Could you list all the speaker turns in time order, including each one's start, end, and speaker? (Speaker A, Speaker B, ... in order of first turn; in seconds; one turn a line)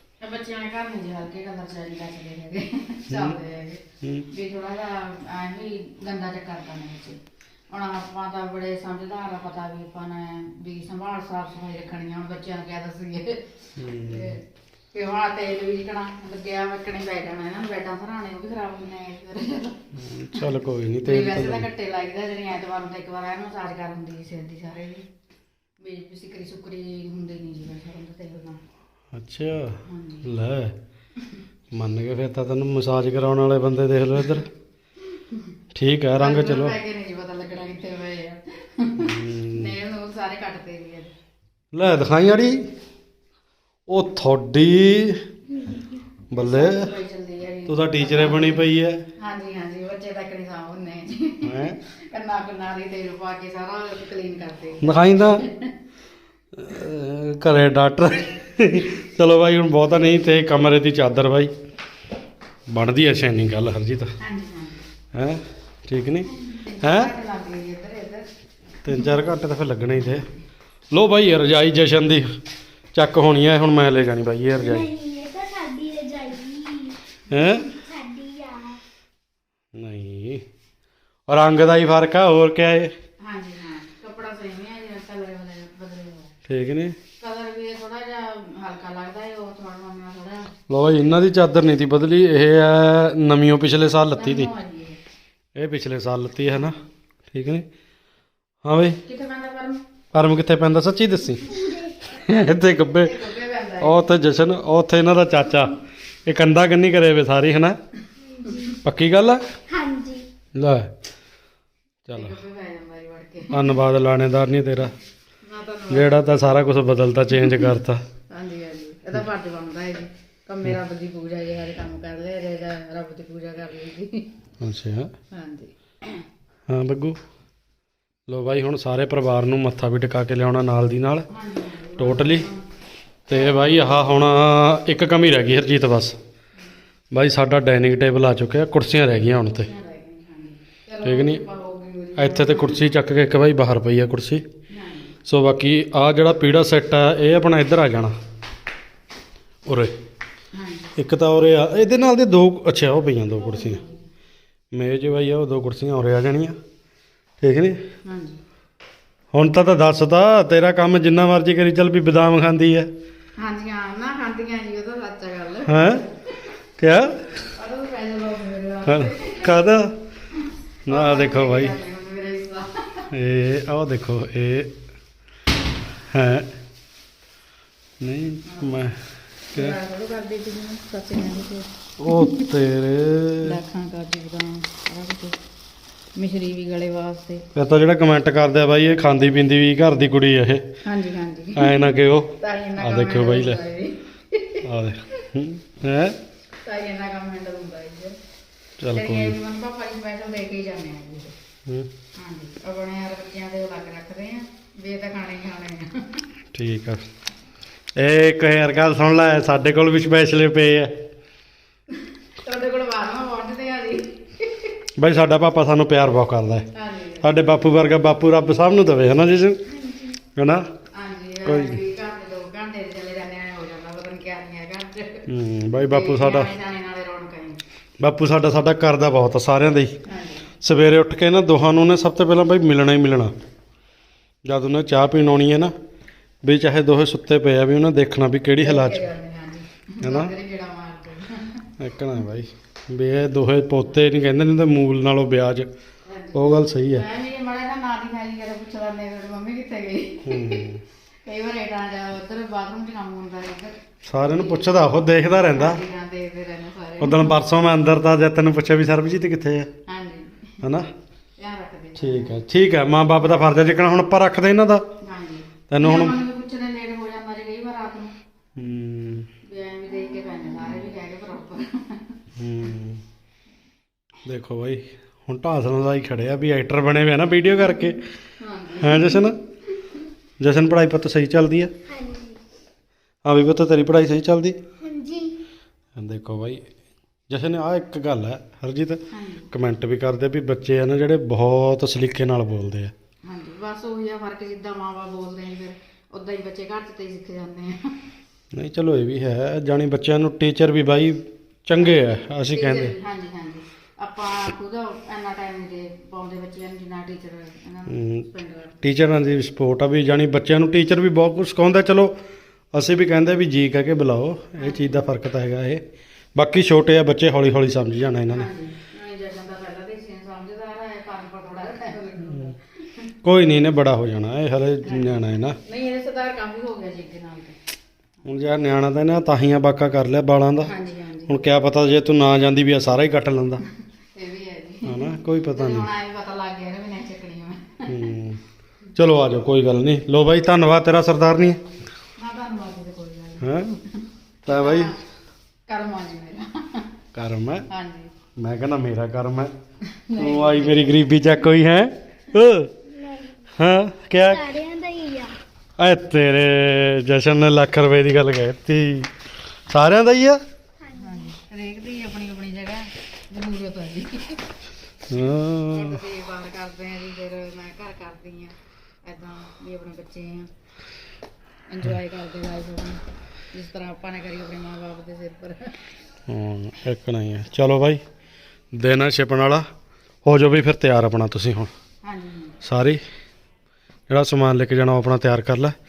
Speaker A: 0.2-7.2
Speaker B: 3.1-3.3
Speaker A: 7.7-14.4
Speaker B: 13.8-14.3
Speaker A: 14.9-19.8
Speaker B: 19.9-21.7
Speaker A: 21.0-25.0
Speaker A: 25.8-28.6
Speaker B: 29.1-30.7
Speaker A: 29.9-30.3
Speaker B: 31.7-34.5
Speaker B: 35.7-36.8
Speaker A: 36.1-41.1
Speaker B: 39.0-39.7
Speaker B: 41.7-42.6
Speaker B: 43.9-45.2
Speaker B: 46.3-46.9
Speaker A: 46.3-48.6
Speaker B: 47.7-49.0
Speaker A: 49.2-55.7
Speaker B: 51.4-51.8
Speaker B: 54.8-55.4
Speaker B: 56.5-61.5
Speaker B: 62.7-64.1
Speaker A: 64.2-64.8
Speaker B: 65.1-66.3
Speaker A: 66.6-68.3
Speaker B: 66.8-67.1
Speaker B: 68.8-70.3
Speaker B: 70.9-72.3
Speaker B: 72.9-74.9
Speaker C: 74.6-78.8
Speaker B: 77.3-77.7
Speaker B: 79.7-80.4
Speaker B: 81.3-82.9
Speaker A: 83.2-86.3
Speaker B: 86.5-87.0
Speaker A: 87.2-90.5
Speaker B: 90.7-94.5
Speaker A: 94.1-95.0
Speaker B: 95.5-96.8
Speaker A: 96.5-96.7
Speaker B: 97.3-97.6
Speaker B: 98.6-99.0
Speaker A: 99.0-99.8
Speaker B: 100.1-103.2
Speaker C: 101.5-102.1
Speaker A: 102.8-104.1
Speaker B: 103.8-107.8
Speaker C: 108.2-108.8
Speaker B: 108.8-109.4
Speaker C: 109.7-110.3
Speaker B: 110.5-110.9
Speaker B: 112.0-112.3
Speaker A: 112.1-113.7
Speaker B: 113.5-114.9
Speaker A: 115.4-116.8
Speaker B: 115.9-118.0
Speaker A: 118.3-124.3
Speaker B: 124.6-125.1
Speaker A: 125.3-126.2
Speaker B: 126.7-127.2
Speaker B: 128.3-131.3
Speaker A: 131.3-132.7
Speaker B: 132.0-132.5
Speaker B: 133.3-136.2
Speaker A: 133.3-133.7
Speaker B: 137.1-139.7
Speaker A: 139.6-142.8
Speaker B: 141.0-141.4
Speaker B: 142.2-144.4
Speaker A: 144.7-145.2
Speaker B: 145.2-148.1
Speaker B: 149.6-149.9
Speaker A: 150.5-150.9
Speaker B: 150.9-153.8
Speaker A: 153.3-154.0
Speaker B: 154.7-156.6
Speaker B: 157.4-157.8
Speaker A: 158.0-158.4
Speaker B: 159.3-162.9
Speaker A: 163.4-166.5
Speaker B: 165.7-166.0
Speaker B: 166.8-167.3
Speaker A: 167.4-169.6
Speaker B: 168.9-169.9
Speaker A: 170.4-173.1
Speaker B: 170.8-171.8
Speaker B: 173.1-174.7
Speaker B: 176.1-176.5
Speaker B: 178.0-179.0
Speaker A: 178.4-178.8
Speaker A: 179.5-182.5
Speaker B: 182.0-183.6
Speaker A: 183.4-185.4
Speaker A: 186.1-187.4
Speaker B: 187.5-190.7
Speaker A: 190.8-191.8
Speaker B: 191.6-193.6
Speaker A: 192.4-194.6
Speaker B: 194.6-196.2
Speaker A: 196.6-198.2
Speaker B: 198.8-199.4
Speaker A: 198.9-201.3
Speaker A: 202.2-206.2
Speaker B: 206.5-207.0
Speaker B: 207.9-210.9
Speaker A: 212.4-214.7
Speaker B: 215.0-216.7
Speaker A: 216.7-217.3
Speaker B: 217.2-219.6
Speaker C: 219.7-220.2
Speaker B: 220.3-220.7
Speaker A: 220.9-227.6
Speaker B: 221.4-221.8
Speaker B: 225.3-226.5
Speaker B: 228.0-230.0
Speaker A: 230.0-230.5
Speaker B: 230.6-233.3
Speaker B: 234.4-235.7
Speaker B: 236.4-239.0
Speaker A: 238.6-241.7
Speaker B: 240.0-240.3
Speaker B: 241.8-245.7
Speaker A: 246.0-250.7
Speaker B: 246.3-247.1
Speaker B: 250.2-250.8
Speaker A: 251.2-254.8
Speaker B: 254.1-255.8
Speaker A: 255.5-257.4
Speaker B: 257.0-259.7
Speaker A: 259.9-260.5
Speaker B: 260.6-260.9
Speaker A: 261.4-262.4
Speaker B: 262.0-264.8
Speaker A: 265.0-268.1
Speaker B: 265.7-266.2
Speaker B: 268.6-269.3
Speaker A: 269.4-272.2
Speaker B: 272.4-273.0
Speaker B: 274.2-278.0
Speaker A: 278.4-279.3
Speaker B: 278.8-279.4
Speaker B: 280.4-281.7
Speaker C: 281.9-282.4
Speaker B: 283.2-284.6
Speaker C: 284.8-285.4
Speaker B: 285.9-286.6
Speaker B: 287.3-292.9
Speaker A: 289.1-289.5
Speaker A: 293.2-298.0
Speaker B: 298.5-302.9
Speaker A: 302.1-308.8
Speaker B: 307.9-308.2
Speaker B: 308.8-312.1
Speaker B: 312.7-315.8
Speaker A: 314.6-315.0
Speaker B: 316.3-318.5
Speaker A: 318.2-323.1
Speaker B: 323.2-325.6
Speaker A: 324.8-327.6
Speaker B: 328.2-330.7
Speaker A: 330.6-331.4
Speaker B: 331.3-333.6
Speaker A: 334.1-338.1
Speaker B: 334.8-335.9
Speaker B: 337.9-338.4
Speaker B: 338.9-341.6
Speaker A: 342.2-345.0
Speaker B: 343.4-343.8
Speaker B: 344.4-344.9
Speaker A: 345.7-346.9
Speaker B: 347.1-347.6
Speaker A: 347.7-348.1
Speaker B: 348.4-349.5
Speaker A: 349.9-351.0
Speaker B: 350.2-352.7
Speaker C: 352.9-353.4
Speaker B: 353.6-354.5
Speaker C: 354.2-355.4
Speaker B: 355.8-359.1
Speaker B: 359.7-360.4
Speaker C: 360.8-361.3
Speaker A: 361.0-364.5
Speaker B: 365.1-366.0
Speaker A: 365.7-370.5
Speaker A: 371.7-373.0
Speaker A: 373.5-375.8
Speaker B: 376.3-378.0
Speaker B: 378.7-379.6
Speaker B: 380.2-381.7
Speaker A: 382.0-382.6
Speaker B: 382.6-383.0
Speaker B: 384.1-385.7